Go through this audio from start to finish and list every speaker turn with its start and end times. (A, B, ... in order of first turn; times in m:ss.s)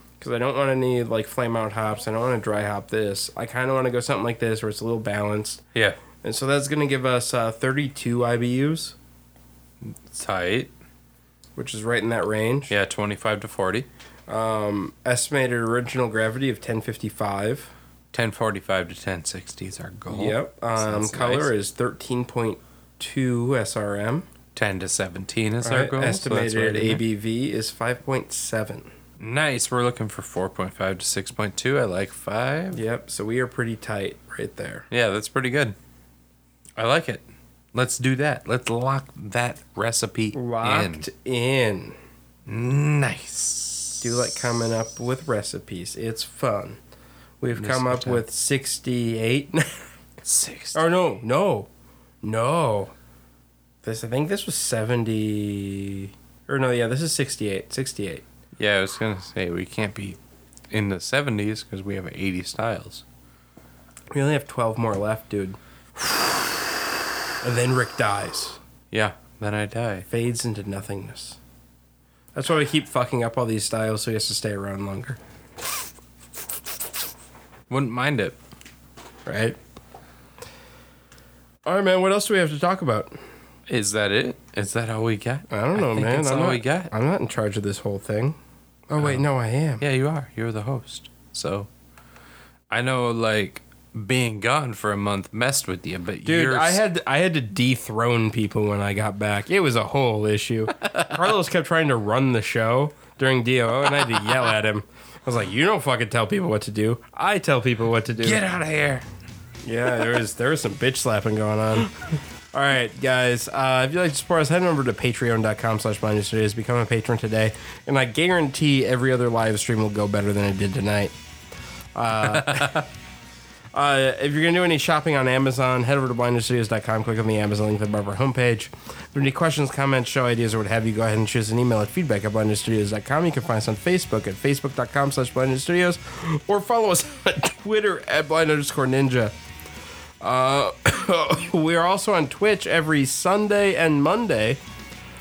0:00.2-0:05.6 A
0:06.2-0:09.0 A
0:09.8-0:10.7 B
0:11.6-0:12.7 A
0:12.7-0:13.9 B
0:14.3-0:17.7 A
0:18.1-0:21.5 B
0:20.1-0:24.3 A
0:24.6-0:27.0 B
0:25.6-0:28.9 A
0:29.2-0:32.8 B
0:32.7-0:34.9 A
0:34.9-0:35.8 B
0:36.8-0:41.1 B
0:40.3-0:42.0 A
0:42.5-0:44.3 B
0:44.0-0:46.8 A
0:47.4-0:49.8 A
0:47.5-0:48.2 B
0:50.2-0:50.8 B
0:50.7-0:51.7 A
0:52.2-0:52.9 A
0:53.8-0:58.2 A
0:58.6-1:00.2 B
1:00.7-1:03.0 B
1:04.1-1:05.6 A
1:07.4-1:08.6 A
1:08.9-1:10.1 B
1:10.1-1:11.4 A
1:12.4-1:15.2 A
1:17.7-1:18.4 B
1:19.3-1:19.6 A
1:21.6-1:23.2 A
1:23.7-1:26.9 B
1:25.5-1:28.4 A
1:28.9-1:29.8 A
1:29.0-1:29.2 B
1:29.8-1:31.7 B
1:32.7-1:36.8 B
1:36.2-1:48.4 A
1:40.8-1:41.2 B
1:48.2-1:49.1 B
1:49.6-1:52.0 A
1:52.5-2:01.1 A
2:02.0-2:02.8 A
2:02.1-2:02.9 B
2:03.7-2:19.3 A
2:20.2-2:24.6 A